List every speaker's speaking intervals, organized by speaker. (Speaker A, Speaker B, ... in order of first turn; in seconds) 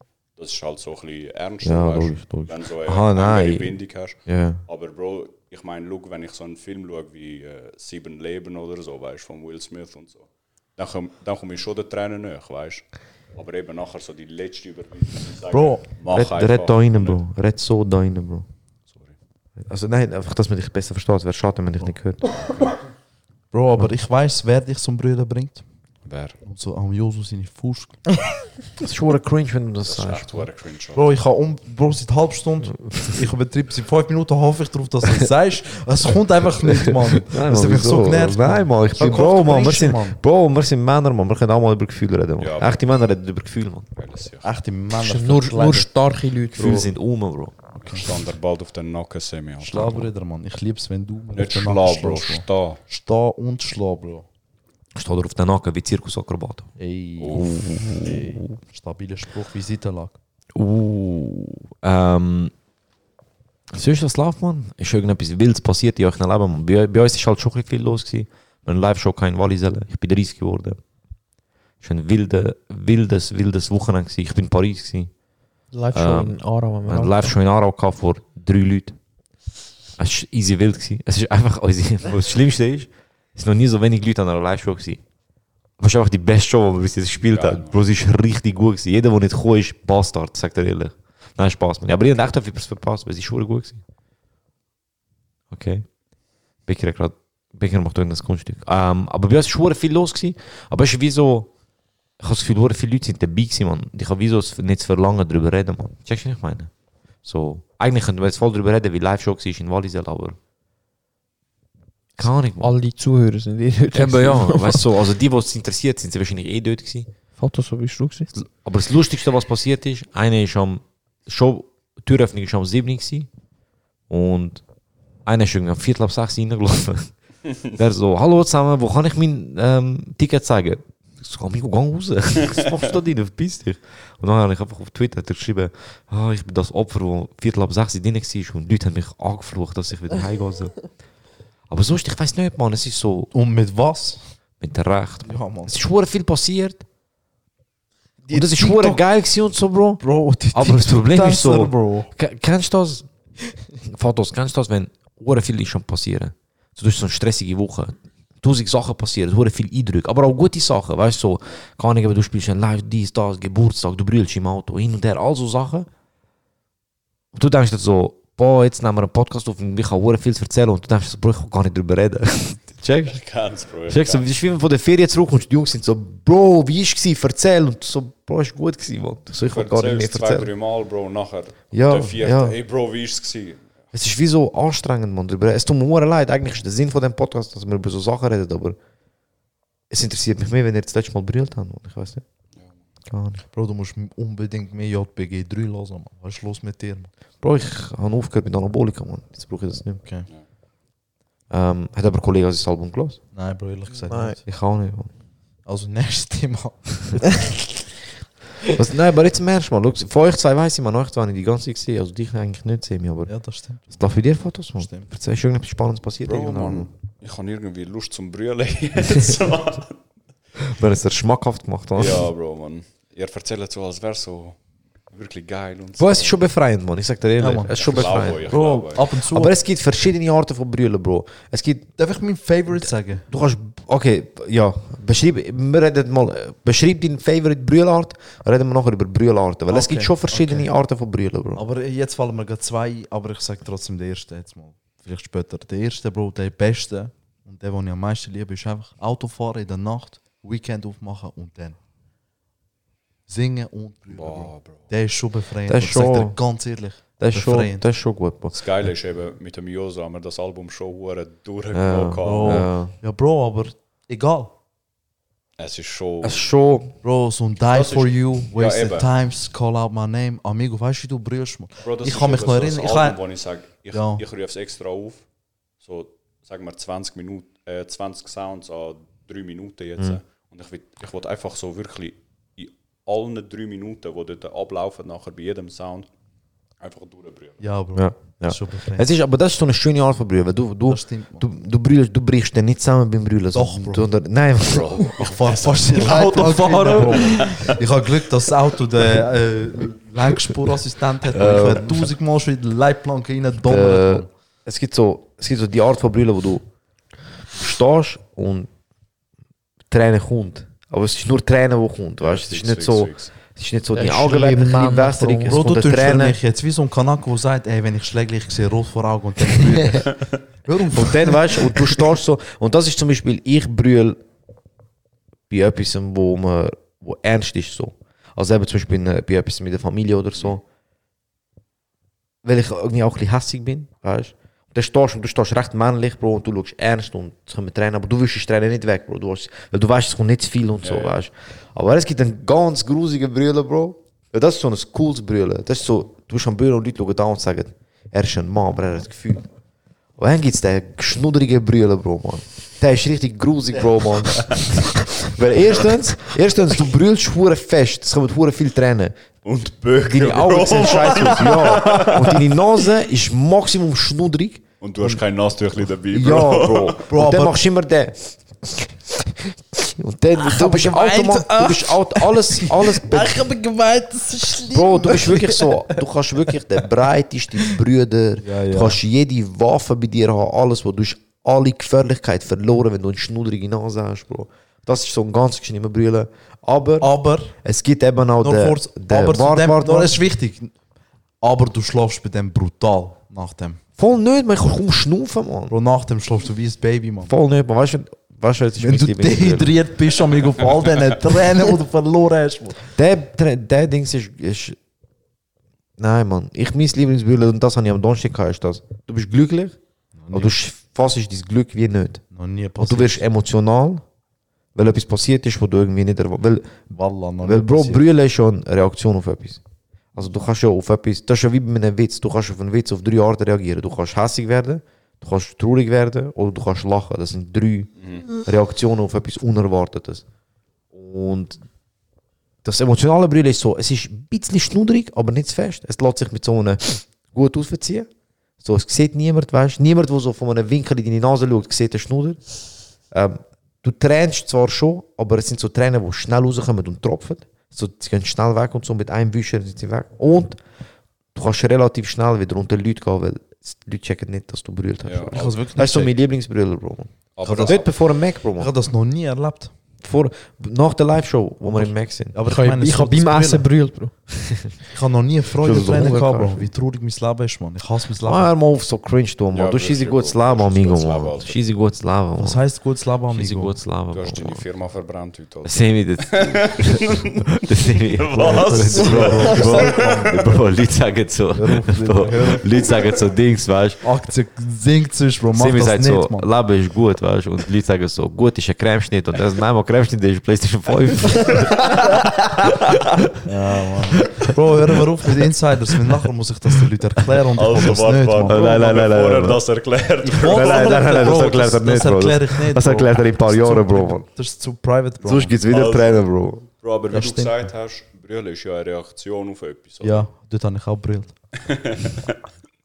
Speaker A: 0.3-17.2, 26.1-26.4, 29.8-31.1, 42.4-42.9, 44.0-44.5, 47.8-50.1, 51.3-52.8, 57.2-57.5, 87.3-87.8, 173.1-174.2, 179.5-183.7, 216.3-220.0, 221.9-224.6, 225.1-226.3, 227.7-229.1, 254.1-254.9, 258.5-262.7, 265.6-266.5, 267.7-269.1, 271.8-275.3, 275.8-286.1, 286.8-287.7, 294.6-296.1, 297.3-297.6, 312.2-313.3, 340.8-341.2, 359.4-362.4, 364.8-367.0, 455.0-455.6, 457.4-457.9, 469.5-471.6, 474.1-480.5, 497.6-501.4, 505.6-506.3, 506.8-510.3, 511.7-512.4
Speaker B: 1.6-4.6, 16.1-18.5, 19.6-22.2, 28.8-30.5, 32.9-33.1, 36.6-43.9, 46.5-47.5, 55.0-56.7, 57.3-58.6, 60.5-62.5, 63.7-70.8, 71.8-75.1, 75.9-79.0, 80.0-85.0, 85.8-93.8, 95.5-95.9, 96.6-101.5, 102.2-106.7, 107.2-110.4, 112.2-112.7, 113.9-117.1, 118.3-123.3, 124.1-124.6, 125.2-140.9, 141.7-143.3, 144.6-146.8, 148.3-153.1, 153.8-165.9, 167.3-173.2, 173.9-180.5, 181.7-182.6, 183.9-188.8, 189.9-192.2, 193.1-193.4, 197.4-200.0, 201.5-203.2, 204.4-205.1, 208.7-216.9, 220.7-222.3, 226.0-231.9, 232.7-241.7, 255.7-256.4, 257.2-258.7, 261.7-262.9, 266.2-266.9, 287.9-295.1, 301.3-302.1, 303.6-306.7, 307.5-308.7, 309.9-316.4, 320.9-324.2, 325.5-330.6, 332.4-349.4, 350.2-359.2, 360.0-364.6, 366.1-373.4, 374.7-390.2, 394.0-395.8, 397.2-399.8, 402.9-404.8, 406.0-409.8, 410.3-412.2, 412.8-414.0, 414.8-416.9, 417.4-419.6, 420.1-430.2, 430.9-431.6, 432.6-438.1, 438.6-450.6, 451.3-458.7, 460.0-462.4, 465.6-466.7, 468.2-474.6, 475.6-477.0, 477.6-484.0, 485.5-492.1, 498.4-499.6, 500.4-504.3, 505.2-506.7
Speaker C: 15.5-15.8, 23.5-25.6, 26.4-28.1, 30.9-40.2, 44.4-45.9, 46.6-46.9, 49.6-54.3, 56.8-60.1, 143.3-144.4, 145.2-145.8, 148.2-149.0, 150.0-152.1, 193.5-197.1, 203.3-204.4, 205.7-207.2, 213.3-214.2, 214.8-215.1, 216.4-216.9, 227.4-229.6, 232.0-233.3, 239.7-240.7, 241.5-251.8, 253.3-257.9, 262.2-264.5, 267.0-273.2, 273.9-274.2, 287.6-289.1, 290.9-291.5, 293.5-294.1, 295.2-304.3, 315.5-322.0, 367.1-367.6, 370.4-375.7, 378.4-379.0, 387.0-387.6, 388.4-390.8, 391.4-393.8, 395.7-397.3, 398.8-402.9, 410.2-410.6, 412.3-413.2, 416.9-418.0, 455.3-456.1, 457.4-457.9, 458.5-459.7, 461.7-463.7, 464.9-468.5, 472.4-473.8, 478.4-480.4, 481.6-482.7, 484.0-486.5, 493.5-498.6, 500.2-505.6, 507.1-507.6, 510.0-511.4
Speaker D: 45.0-46.9, 75.7-77.3, 112.2-114.8, 117.4-118.3, 204.1-204.4, 296.0-297.6, 313.9-315.6, 462.5-464.1, 466.0-466.3